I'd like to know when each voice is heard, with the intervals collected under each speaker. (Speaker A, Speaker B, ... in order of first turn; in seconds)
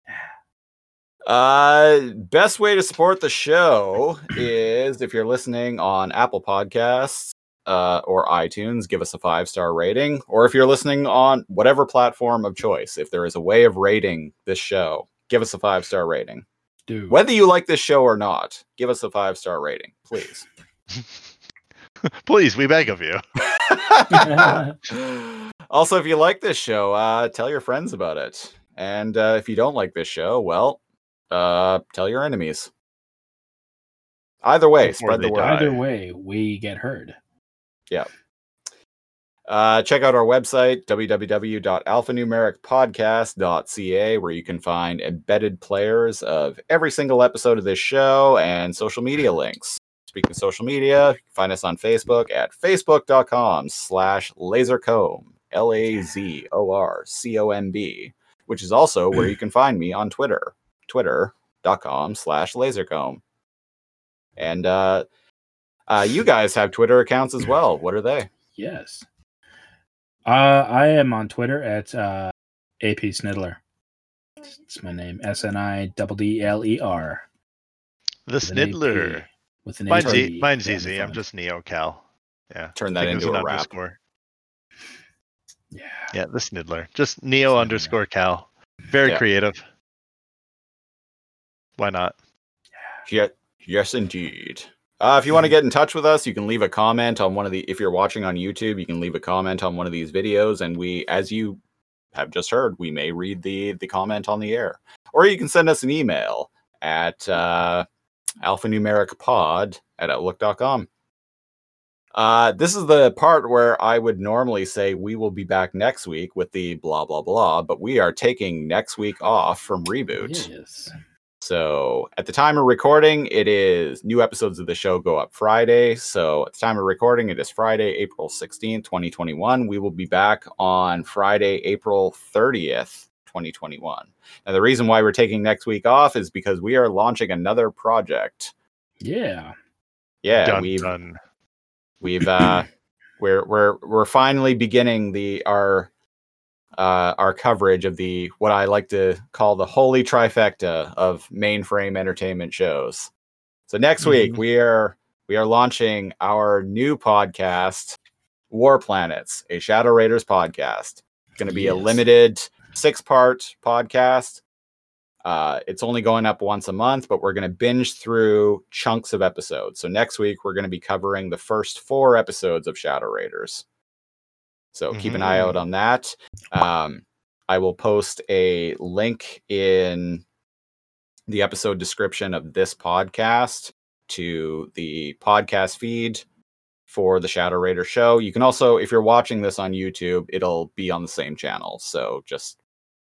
Speaker A: 1.3-16.5, 17.1-20.5, 23.4-30.8, 31.3-32.7, 34.4-35.7, 39.5-63.2, 64.4-65.1, 65.9-68.3, 82.8-83.7, 93.1-101.6, 102.1-107.9, 108.4-110.9, 112.1-120.5, 121.4-138.5, 140.2-140.9, 142.0-142.7, 143.2-145.9, 146.8-153.1, 153.7-158.0, 158.5-164.4, 165.2-173.7, 174.7-180.2, 181.3-186.2, 186.9-192.6
Speaker B: 16.9-17.2, 24.1-24.7, 35.4-37.2, 68.6-69.0, 70.3-73.6, 74.4-77.2, 78.5-81.2, 85.7-86.1, 87.5-87.9, 120.2-120.9, 139.0-139.6, 161.5-162.0
Speaker C: 22.1-23.2, 34.8-35.8, 78.3-79.3, 79.9-84.0, 86.1-89.6, 91.8-92.2, 140.3-141.2, 174.9-175.6